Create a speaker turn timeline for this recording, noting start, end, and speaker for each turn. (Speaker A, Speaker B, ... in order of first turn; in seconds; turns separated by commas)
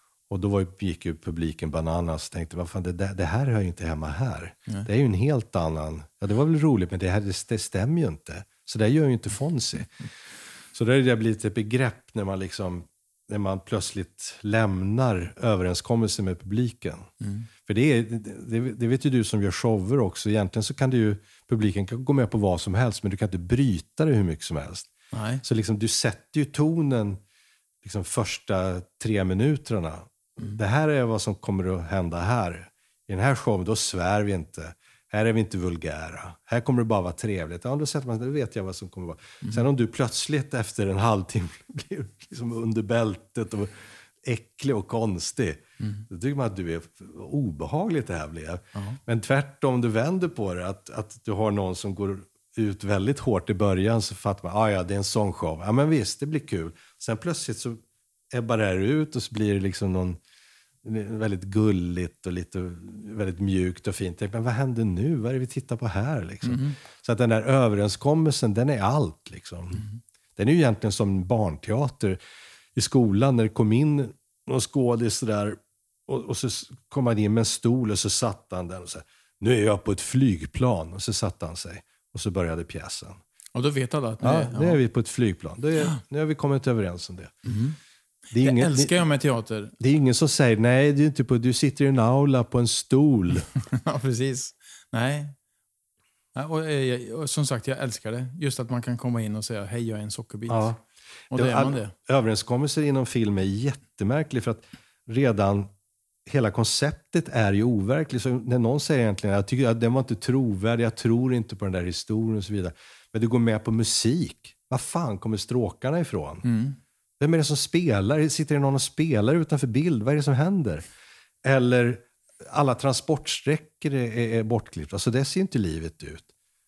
Speaker A: 0.3-9.9, Speaker A: 10.7-17.1, Speaker B: 17.2-17.5, Speaker A: 17.6-24.9, Speaker B: 25.1-25.4, Speaker A: 25.4-27.2, Speaker A: 27.8-57.8, Speaker B: 45.8-46.0, Speaker A: 58.3-60.2, Speaker A: 60.8-72.2, Speaker B: 66.4-66.8, Speaker A: 72.7-83.2, Speaker B: 83.5-84.8, Speaker A: 84.2-87.3, Speaker B: 87.4-87.8, Speaker B: 88.3-89.7, Speaker A: 88.3-89.0, Speaker A: 89.8-93.5, Speaker B: 93.7-95.3, Speaker B: 96.3-100.7, Speaker A: 100.5-105.7, Speaker B: 101.3-101.9, Speaker A: 106.2-116.5, Speaker B: 116.4-116.8, Speaker A: 117.2-120.8, Speaker A: 121.4-126.3